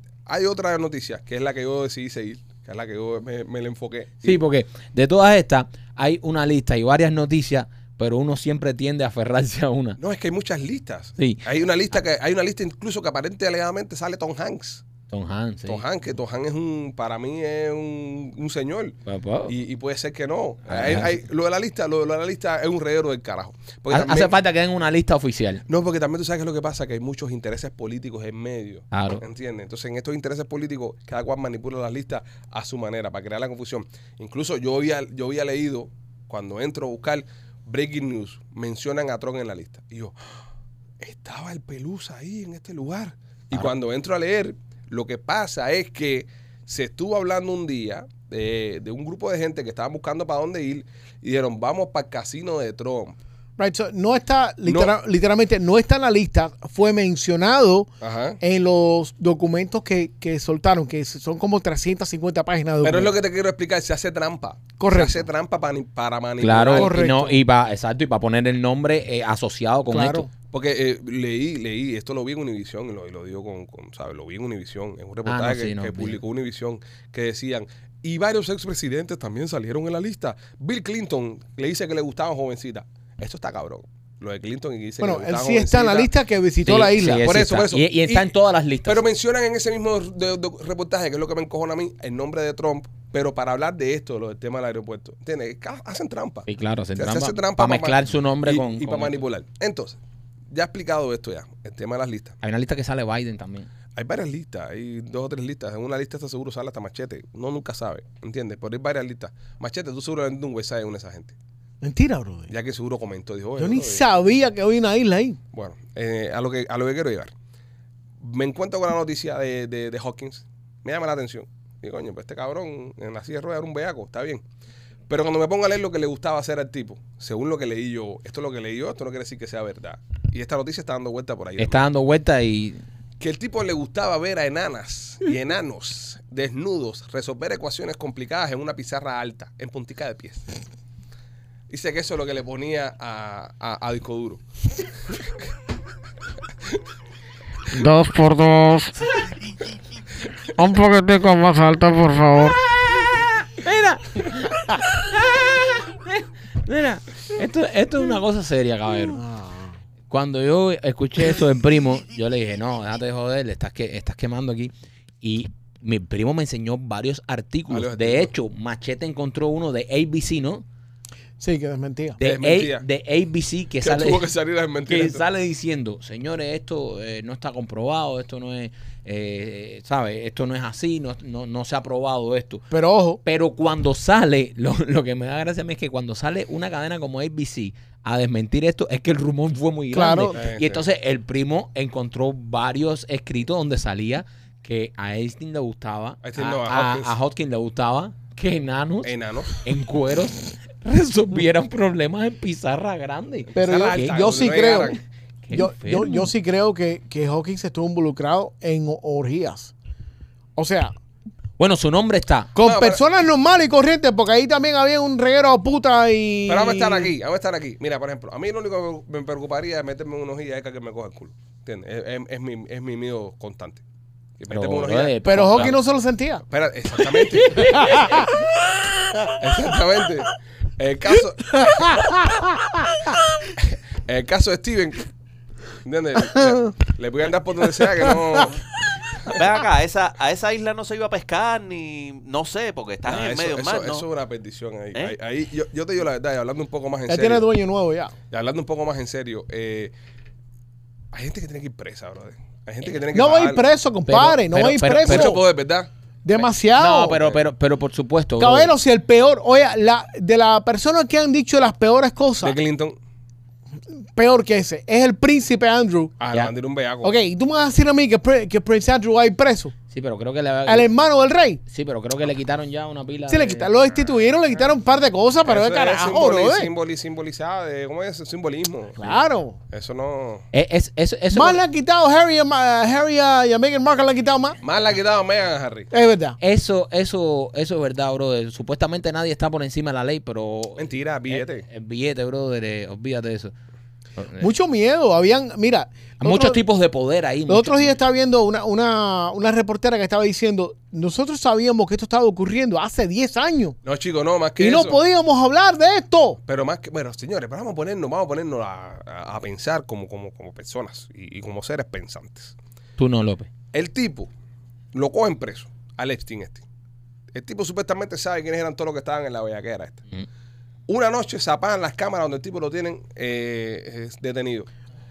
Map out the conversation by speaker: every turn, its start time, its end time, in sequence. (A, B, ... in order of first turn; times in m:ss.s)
0:00.2-0:04.4 A
0:04.2-0:10.0 B
0:10.0-0:14.8 A
0:11.2-0:11.4 B
0:15.1-0:15.8 B
0:15.7-0:24.3 A
0:19.0-0:19.5 B
0:20.7-0:21.2 B
0:23.9-0:25.6 B
0:25.7-0:40.1 A
0:28.9-0:29.2 B
0:41.0-0:53.2 A
0:53.6-0:57.9 C
0:54.6-0:54.9 A
0:58.0-0:58.4 A
0:58.4-1:03.1 C
1:02.8-1:07.0 A
1:04.8-1:05.3 C
1:06.4-1:10.3 B
1:06.7-1:07.4 C
1:09.9-1:10.3 C
1:10.5-1:26.1 A
1:15.2-1:16.2 B
1:25.0-1:27.4 C
1:26.6-1:29.0 B
1:27.1-1:28.3 A
1:28.8-1:40.0 A
1:36.5-1:39.2 B
1:40.5-1:42.4 A
1:42.4-1:43.7 B
1:43.9-1:51.3 A
1:51.8-1:52.5 C
1:52.5-1:54.0 A
1:53.6-1:55.4 C
1:55.5-1:57.3 A
1:58.2-2:04.4 A
2:05.1-2:11.8 A
2:11.6-2:12.8 B
2:13.2-2:20.5 A
2:21.7-2:24.4 A
2:27.7-2:29.1 D
2:30.6-2:32.6 D
2:33.6-2:39.2 B
2:39.2-2:39.7 C
2:40.1-2:50.6 B
2:47.7-2:48.3 A
2:51.4-2:52.2 C
2:52.2-2:54.3 B
2:52.2-2:52.8 A
2:53.8-2:55.2 A
2:54.8-3:02.7 B
3:02.7-3:03.2 C
3:03.2-3:24.5 B
3:09.9-3:10.4 C
3:10.3-3:10.8 A
3:16.2-3:17.2 A
3:19.0-3:19.5 A
3:23.5-3:25.0 A
3:23.5-3:25.0 C
3:25.4-3:26.3 B
3:25.5-3:29.7 C
3:30.6-3:30.9 C
3:31.6-3:32.5 B
3:32.5-3:37.1 C
3:32.6-3:33.0 A
3:36.5-3:43.8 A
3:44.4-3:45.7 A
3:44.5-3:45.8 B
3:45.2-3:46.4 C
3:46.5-3:48.3 A
3:47.2-3:48.4 C
3:49.4-3:52.1 A
3:51.5-3:53.0 C
3:53.6-3:55.1 A
3:55.8-3:58.6 A
3:56.3-3:56.7 C
3:58.0-3:58.4 C
3:59.2-4:04.0 E
4:03.1-4:07.4 A
4:07.1-4:08.1 C
4:08.3-4:09.9 A
4:11.1-4:13.6 A
4:13.1-4:15.4 C
4:14.0-4:15.3 B
4:15.0-4:15.9 A
4:16.2-4:17.2 C
4:16.7-4:18.7 B
4:18.4-4:22.6 C
4:22.4-4:23.0 A
4:24.1-4:26.1 C
4:26.2-4:27.1 A
4:27.0-4:29.7 C
4:29.9-4:30.9 B
4:30.6-4:31.6 C
4:31.7-4:33.7 B
4:33.3-4:36.7 C
4:35.4-4:39.1 A
4:39.0-4:39.6 C
4:39.7-4:40.4 A
4:40.5-4:41.6 B
4:41.3-4:44.6 C
4:44.6-4:45.9 A
4:45.9-4:46.4 C
4:46.4-4:53.5 B
4:50.8-4:51.6 A
4:54.2-4:54.5 B
4:54.4-4:56.6 C
4:56.2-4:58.0 B
4:57.5-5:03.8 C
5:03.8-5:05.0 A
5:04.6-5:06.4 C
5:06.4-5:12.5 A
5:13.0-5:13.5 B
5:13.7-5:14.3 A
5:14.9-5:16.6 A
5:17.3-5:20.0 A
5:20.9-5:24.7 A